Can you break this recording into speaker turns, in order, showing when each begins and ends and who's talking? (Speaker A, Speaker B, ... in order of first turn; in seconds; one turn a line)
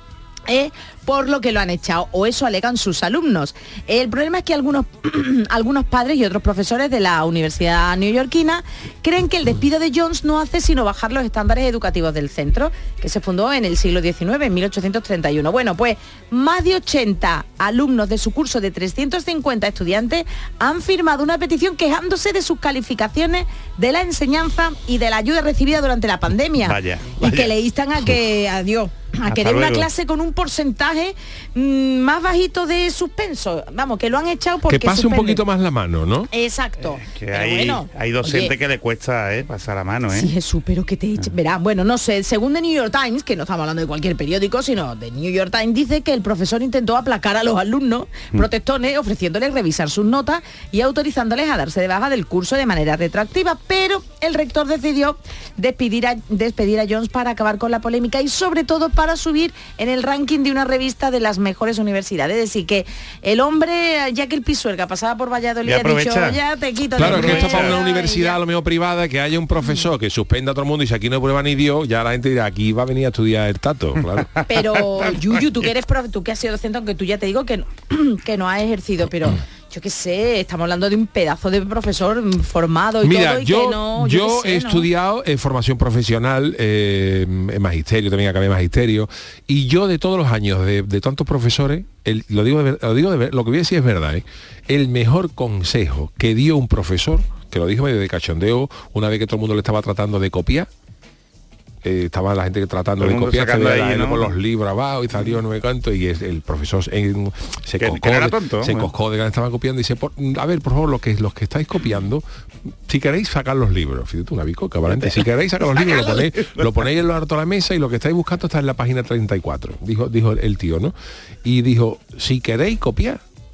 Speaker A: 0.5-35.4
Speaker B: 26.6-27.5
Speaker B: 29.3-29.9
Speaker C: 34.7-36.3
Speaker A: 36.3-38.5
Speaker B: 37.0-40.3
Speaker A: 40.1-68.4
Speaker B: 65.7-66.4
Speaker C: 67.0-74.3
Speaker B: 67.0-67.8
Speaker B: 74.4-75.2
Speaker A: 74.5-84.9
Speaker C: 83.0-100.7
Speaker C: 101.8-112.2
Speaker B: 103.0-104.3
Speaker B: 107.8-108.9
Speaker C: 112.9-120.9
Speaker B: 114.9-116.7
Speaker C: 121.4-123.2